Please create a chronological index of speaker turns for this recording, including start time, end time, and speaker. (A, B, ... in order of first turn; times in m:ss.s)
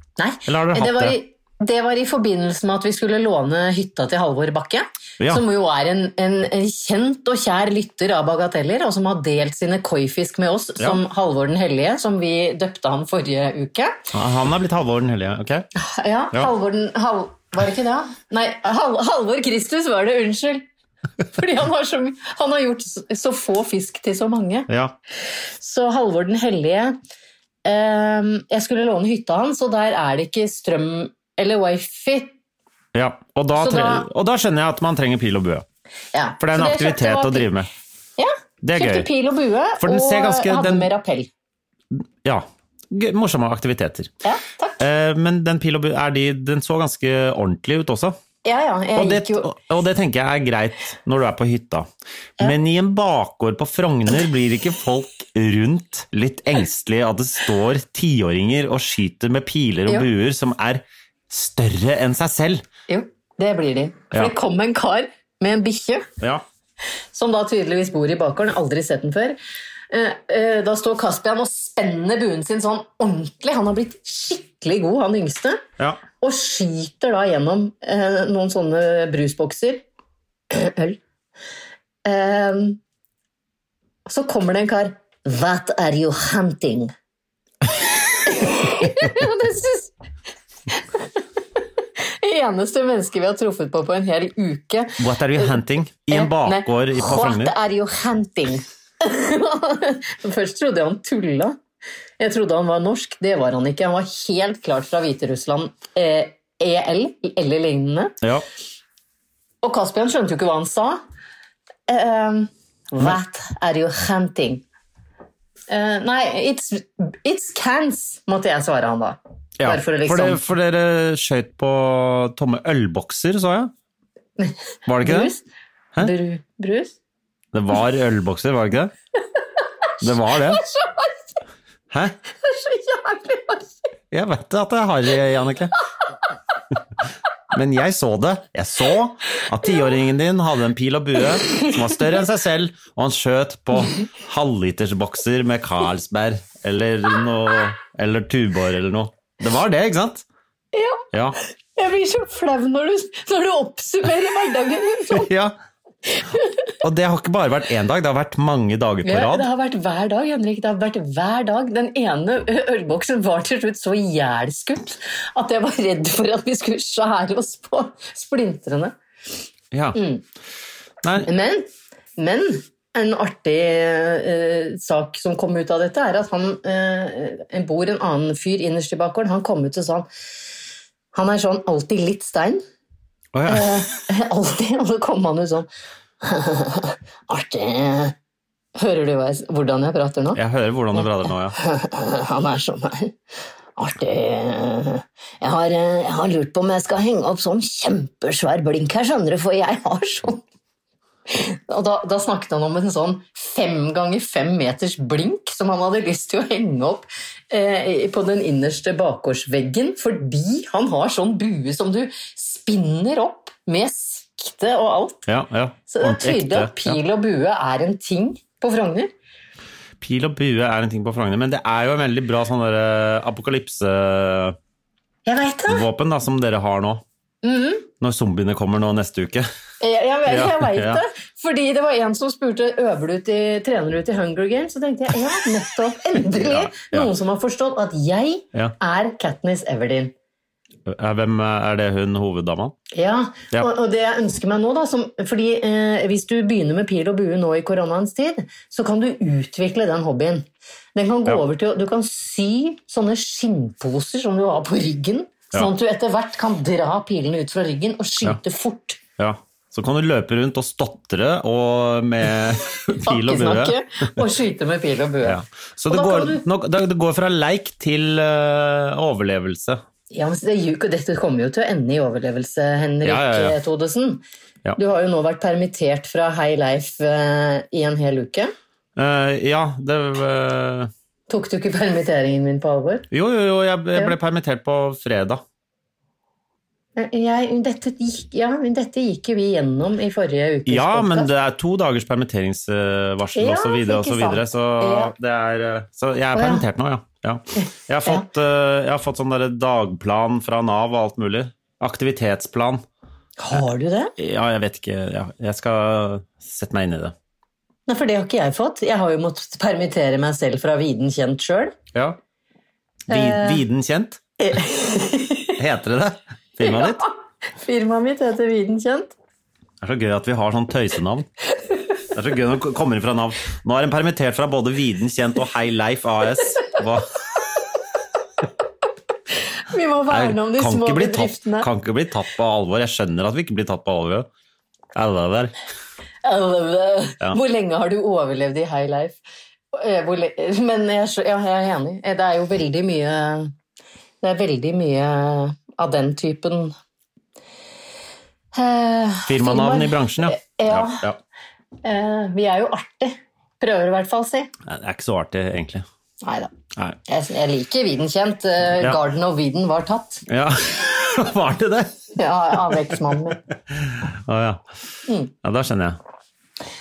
0:00.2-0:14.0 A
0:00.4-0:01.2 B
0:14.1-0:15.6 B
0:15.8-0:20.6 A
0:21.3-0:24.7 A
0:24.7-0:24.9 B
0:25.6-0:27.0 A
0:27.6-0:32.3 A
0:32.9-0:35.6 B
0:33.6-0:34.1 A
0:36.1-0:37.5 A
0:36.4-0:37.7 B
0:38.2-0:41.3 A
0:38.6-0:39.1 B
0:39.8-0:40.9 B
0:41.9-0:44.1 B
0:44.2-0:44.8 A
0:44.8-0:48.2 B
0:48.4-0:49.5 A
0:49.0-0:51.9 B
0:52.4-1:02.6 B
1:02.9-1:06.1 A
1:07.1-1:09.4 A
1:09.9-1:15.6 A
1:16.2-1:19.8 A
1:20.5-1:21.0 A
1:22.0-1:22.8 A
1:24.0-1:26.9 A
1:28.2-1:29.9 A
1:30.7-1:31.2 A
1:32.2-1:35.6 A
1:35.0-1:37.5 B
1:36.1-1:41.6 A
1:42.2-1:48.2 A
1:49.6-1:51.0 A
1:51.9-1:54.6 A
1:55.7-2:00.4 A
1:59.6-2:03.7 B
2:04.4-2:05.4 A
2:04.8-2:05.3 B
2:06.0-2:06.9 A
2:07.5-2:08.9 B
2:10.0-2:10.6 B
2:10.0-2:11.2 A
2:11.9-2:12.2 B
2:12.4-2:13.8 A
2:14.1-2:15.8 B
2:17.5-2:30.2 B
2:30.7-2:31.1 A
2:31.1-2:31.4 B
2:31.8-2:35.3 A
2:35.1-2:35.6 B
2:36.1-2:36.7 A
2:36.8-2:39.5 B
2:39.0-2:48.9 A
2:49.7-2:50.0 B
2:49.9-2:50.2 A
2:51.0-2:51.3 B
2:51.2-3:00.1 A
3:01.1-3:02.6 A
3:03.3-3:03.9 B
3:03.5-3:05.7 A
3:06.2-3:08.1 A
3:08.8-3:10.4 A
3:10.3-3:11.6 B
3:11.6-3:13.1 A
3:13.8-3:20.4 A
3:21.3-3:35.2 A
3:35.2-3:37.0 B
3:35.9-3:39.1 A
3:40.0-3:44.6 B
3:45.2-3:45.8 A
3:45.7-3:47.0 B
3:47.4-3:47.8 A
3:48.0-3:49.5 B
3:49.8-4:00.1 A
3:50.2-3:51.0 B
3:56.3-3:57.1 B
4:00.8-4:02.7 B
4:02.9-4:19.0 A
4:19.2-4:23.8 B
4:22.9-4:26.4 A
4:25.2-4:29.8 B
4:30.1-4:34.2 A
4:33.0-4:33.6 B
4:34.8-4:38.5 A
4:39.0-4:40.9 B
4:41.3-4:43.1 A
4:43.1-4:45.4 B
4:47.0-4:51.3 A
4:50.7-5:02.8 B
4:53.3-4:55.1 A
4:56.3-4:56.6 A
4:57.6-4:58.2 A
5:03.4-5:04.1 A
5:04.2-5:07.1 B
5:07.9-5:11.7 A
5:11.9-5:12.2 B
5:13.1-5:14.2 B
5:13.1-5:13.6 A
5:14.4-5:15.6 A
5:15.6-5:17.0 B
5:16.6-5:19.1 A
5:19.8-5:21.3 B
5:22.1-5:27.1 B
5:29.7-5:31.7 A
5:30.1-5:34.3 B
5:34.9-5:35.5 B
5:36.2-5:39.2 A
5:39.7-5:43.5 A
5:44.2-5:46.7 A
5:48.5-5:51.0 A
5:49.2-5:51.2 B
5:51.8-5:54.5 A
5:54.6-5:55.8 B
5:56.2-5:56.5 A
5:57.0-6:00.2 A
6:00.3-6:03.0 B
6:02.2-6:03.4 A
6:03.7-6:04.6 B
6:05.0-6:05.3 A
6:05.4-6:06.0 B